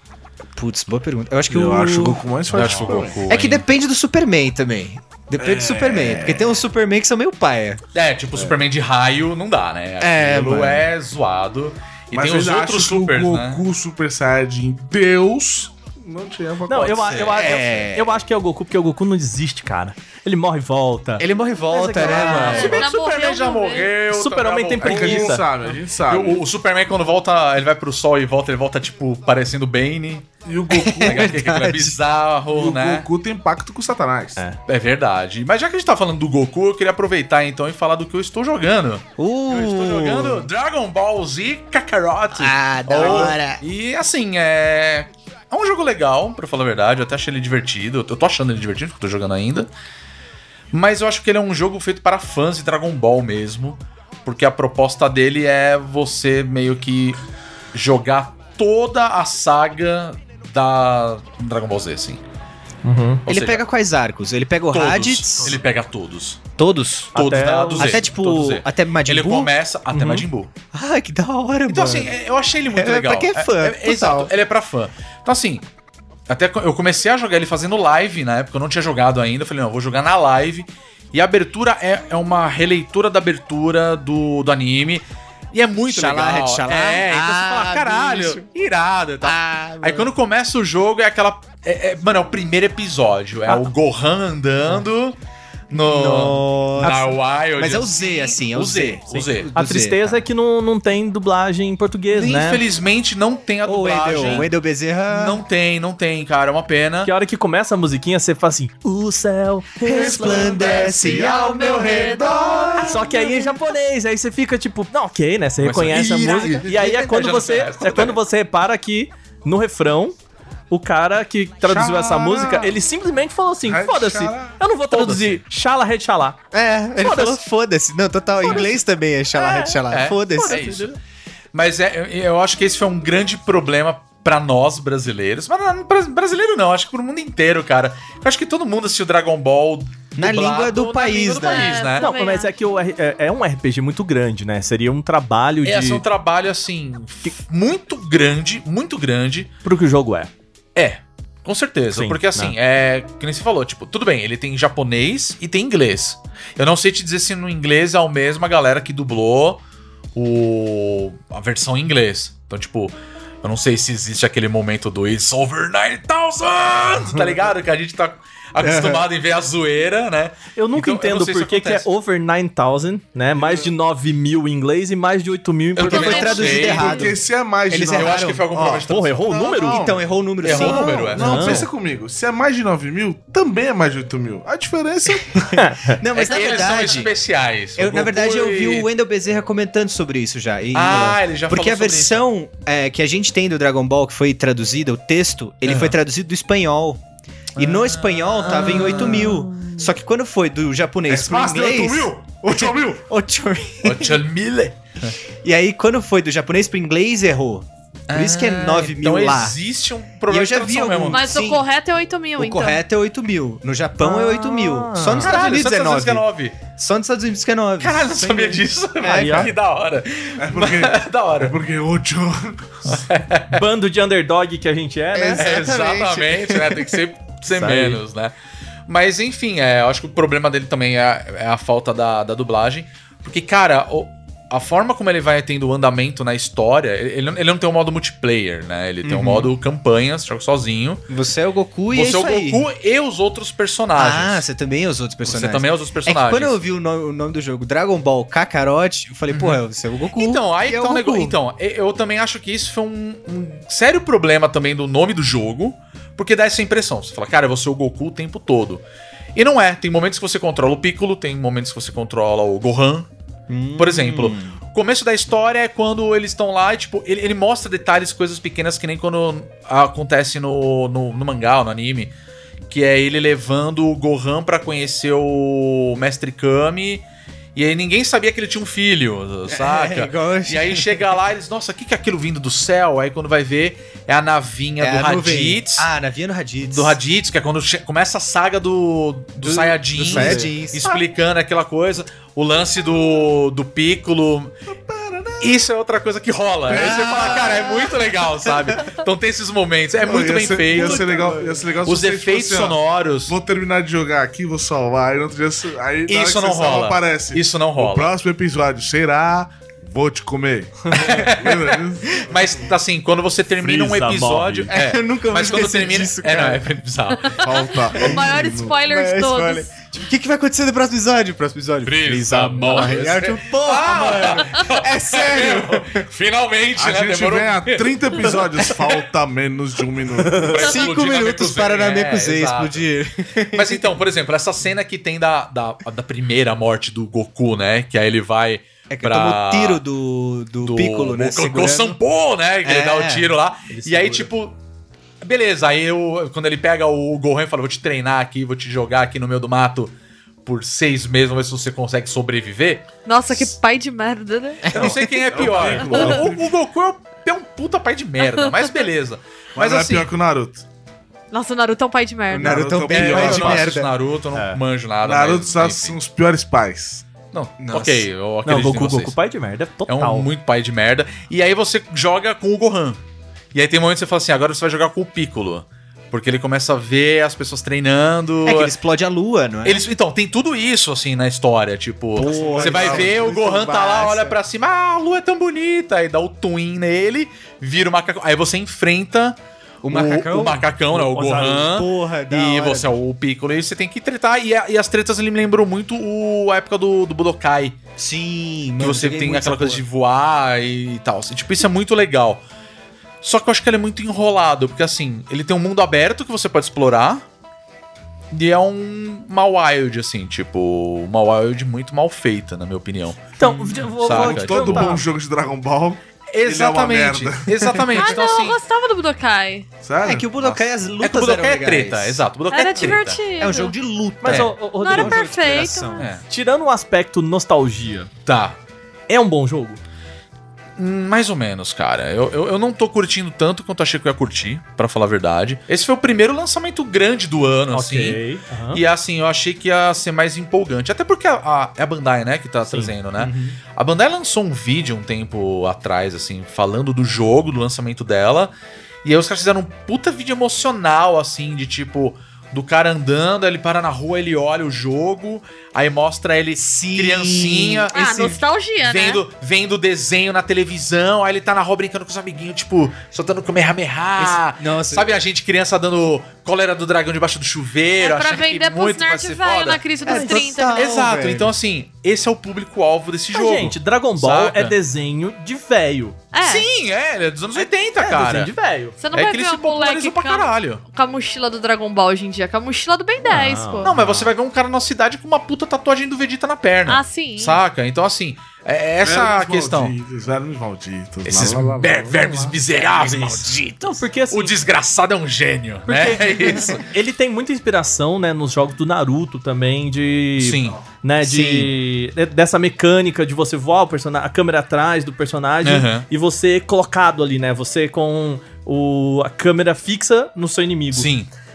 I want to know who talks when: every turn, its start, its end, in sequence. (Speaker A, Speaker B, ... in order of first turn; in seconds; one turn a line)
Speaker A: 0.6-2.2
Speaker B: 1.5-3.2
Speaker C: 2.5-3.6
Speaker A: 3.3-7.8
Speaker B: 5.4-6.5
Speaker C: 7.9-13.6
Speaker A: 10.0-10.9
Speaker B: 12.1-17.3
Speaker D: 16.7-22.8
Speaker C: 16.8-17.4
Speaker A: 17.3-18.2
Speaker A: 21.2-22.9
Speaker C: 22.0-30.3
Speaker E: 22.4-23.9
Speaker D: 24.1-25.4
Speaker B: 24.8-26.4
Speaker B: 30.4-31.4
Speaker A: 30.7-32.0
Speaker C: 31.0-33.1
Speaker B: 32.5-34.4
Speaker C: 34.7-49.7
Speaker A: 39.2-40.5
Speaker A: 42.3-43.6
Speaker C: 50.7-57.2
Speaker C: 57.7-62.2
Speaker D: 62.8-63.2
Speaker C: 63.3-63.6
Speaker A: 63.3-65.6
Speaker C: 64.7-66.4
Speaker A: 66.6-67.2
Speaker D: 67.2-68.0
Speaker C: 67.2-70.5
Speaker A: 67.8-69.5
Speaker D: 69.9-70.3
Speaker A: 70.7-72.1
Speaker C: 71.7-75.6
Speaker A: 72.7-74.3
Speaker C: 76.3-95.2
Speaker A: 85.9-88.5
Speaker A: 89.2-90.1
Speaker C: 95.7-99.5
Speaker A: 95.7-100.2
Speaker D: 99.5-102.6
Speaker C: 102.1-104.5
Speaker A: 103.7-105.4
Speaker C: 105.1-107.1
Speaker D: 107.0-110.8
Speaker A: 109.8-113.5
Speaker C: 110.2-113.1
Speaker B: 110.5-112.0
Speaker D: 112.8-120.2
Speaker C: 115.6-118.2
Speaker A: 116.6-117.1
Speaker D: 120.7-126.4
Speaker B: 121.7-122.7
Speaker B: 123.7-124.6
Speaker C: 124.9-125.4
Speaker A: 126.5-130.8
Speaker D: 127.0-127.4
Speaker D: 128.4-128.7
Speaker D: 129.3-131.0
Speaker C: 129.9-130.9
Speaker C: 131.5-142.1
Speaker A: 140.2-141.8
Speaker E: 141.4-142.5
Speaker D: 142.0-146.0
Speaker C: 145.6-149.5
Speaker D: 149.6-150.3
Speaker C: 150.8-159.6
Speaker D: 151.9-152.6
Speaker C: 160.2-171.9
Speaker A: 168.6-169.1
Speaker D: 170.6-176.4
Speaker B: 173.3-173.7
Speaker C: 175.8-177.1
Speaker A: 175.8-177.2
Speaker E: 175.9-177.0
Speaker B: 176.4-185.5
Speaker A: 177.7-178.4
Speaker C: 177.9-179.4
Speaker D: 178.9-179.8
Speaker A: 179.6-181.4
Speaker C: 180.4-181.6
Speaker D: 181.2-181.7
Speaker A: 185.4-187.1
Speaker D: 185.5-186.0
Speaker C: 186.1-188.9
Speaker A: 187.8-197.0
Speaker C: 190.7-192.2
Speaker C: 195.7-196.0
Speaker C: 197.6-199.4
Speaker A: 197.6-204.2
Speaker D: 198.7-199.8
Speaker B: 201.1-202.9
Speaker C: 201.5-202.8
Speaker C: 203.8-205.2
Speaker A: 205.4-209.6
Speaker C: 208.1-211.3
Speaker A: 210.3-211.7
Speaker E: 211.1-212.8
Speaker A: 212.4-219.5
Speaker D: 214.0-215.4
Speaker C: 215.2-216.6
Speaker C: 217.8-221.6
Speaker D: 219.1-219.5
Speaker B: 220.4-223.0
Speaker C: 222.8-223.6
Speaker D: 223.5-225.5
Speaker A: 225.1-227.0
Speaker C: 225.3-228.3
Speaker D: 227.5-228.0
Speaker C: 228.9-241.1
Speaker A: 239.0-239.5
Speaker A: 241.1-242.7
Speaker C: 241.9-244.4
Speaker A: 244.0-251.4
Speaker C: 245.2-246.6
Speaker C: 249.3-249.6
Speaker C: 250.1-258.8
Speaker C: 259.4-263.1
Speaker A: 263.5-264.6
Speaker C: 263.8-272.1
Speaker C: 272.7-277.0
Speaker C: 277.6-285.9
Speaker A: 279.5-281.1
Speaker A: 284.8-287.0
Speaker C: 286.6-294.6
Speaker A: 289.4-291.0
Speaker D: 290.0-290.5
Speaker B: 294.7-295.5
Speaker C: 295.4-303.4
Speaker A: 296.7-299.0
Speaker B: 296.8-297.4
Speaker B: 300.0-312.4
Speaker A: 300.7-301.3
Speaker C: 306.1-308.1
Speaker C: 310.9-317.4
Speaker D: 313.6-314.7
Speaker A: 314.7-316.7
Speaker E: 317.2-319.7
Speaker B: 317.4-318.8
Speaker A: 317.9-326.0
Speaker C: 321.9-328.9
Speaker B: 326.8-330.7
Speaker C: 330.4-332.9
Speaker A: 330.5-334.0
Speaker C: 333.5-339.8
Speaker A: 338.9-342.0
Speaker C: 340.6-344.6
Speaker A: 342.6-343.3
Speaker D: 343.7-344.3
Speaker C: 345.2-349.9
Speaker C: 350.4-353.5
Speaker E: 353.1-354.8
Speaker A: 354.6-355.2
Speaker C: 354.7-360.1
Speaker B: 354.8-356.5
Speaker E: 355.8-356.2
Speaker B: 359.6-360.6
Speaker E: 361.3-362.7
Speaker A: 362.3-363.9
Speaker B: 362.4-363.8
Speaker C: 362.9-366.0
Speaker D: 364.3-364.6
Speaker B: 365.0-367.1
Speaker C: 367.3-369.2
Speaker A: 367.6-368.1
Speaker D: 368.4-370.3
Speaker C: 369.9-373.0
Speaker C: 373.5-378.7
Speaker A: 378.4-379.9
Speaker C: 379.6-389.4
Speaker A: 382.1-384.4
Speaker B: 382.5-383.2
Speaker A: 389.8-390.7
Speaker C: 389.9-397.8
Speaker D: 390.9-391.7
Speaker A: 391.6-392.9
Speaker A: 398.0-399.8
Speaker C: 398.8-402.4
Speaker C: 403.2-407.2
Speaker C: 408.3-413.4
Speaker D: 413.4-415.0
Speaker A: 413.4-413.9
Speaker C: 414.0-415.0
Speaker B: 414.1-417.8
Speaker C: 416.3-418.6
Speaker E: 417.9-419.7
Speaker B: 419.8-420.6
Speaker A: 420.0-422.2
Speaker C: 421.0-423.2
Speaker E: 422.5-423.7
Speaker A: 422.8-426.1
Speaker D: 424.2-425.6
Speaker C: 424.3-424.6
Speaker E: 424.8-426.1
Speaker C: 426.0-426.2
Speaker D: 426.3-428.1
Speaker C: 428.3-428.6
Speaker D: 429.1-429.8
Speaker C: 430.8-438.2
Speaker D: 437.7-438.8
Speaker C: 438.7-448.5
Speaker A: 443.2-443.6
Speaker C: 449.0-458.2
Speaker A: 456.6-458.4
Speaker E: 457.9-459.2
Speaker C: 458.8-469.8
Speaker A: 464.2-465.1
Speaker E: 468.0-470.9
Speaker A: 470.1-471.5
Speaker D: 470.1-470.4
Speaker C: 470.7-474.8
Speaker D: 473.3-476.2
Speaker E: 476.3-476.7
Speaker C: 476.4-478.5
Speaker D: 477.6-479.0
Speaker E: 479.0-483.9
Speaker C: 479.1-480.8
Speaker D: 483.2-484.3
Speaker C: 483.8-489.9
Speaker E: 486.9-487.6
Speaker B: 489.0-492.2
Speaker C: 491.2-496.8
Speaker D: 492.2-492.5
Speaker A: 492.9-493.3
Speaker D: 493.8-494.6
Speaker D: 495.9-511.1
Speaker C: 500.4-500.8
Speaker A: 501.2-501.7
Speaker C: 505.6-506.1
Speaker C: 510.9-511.3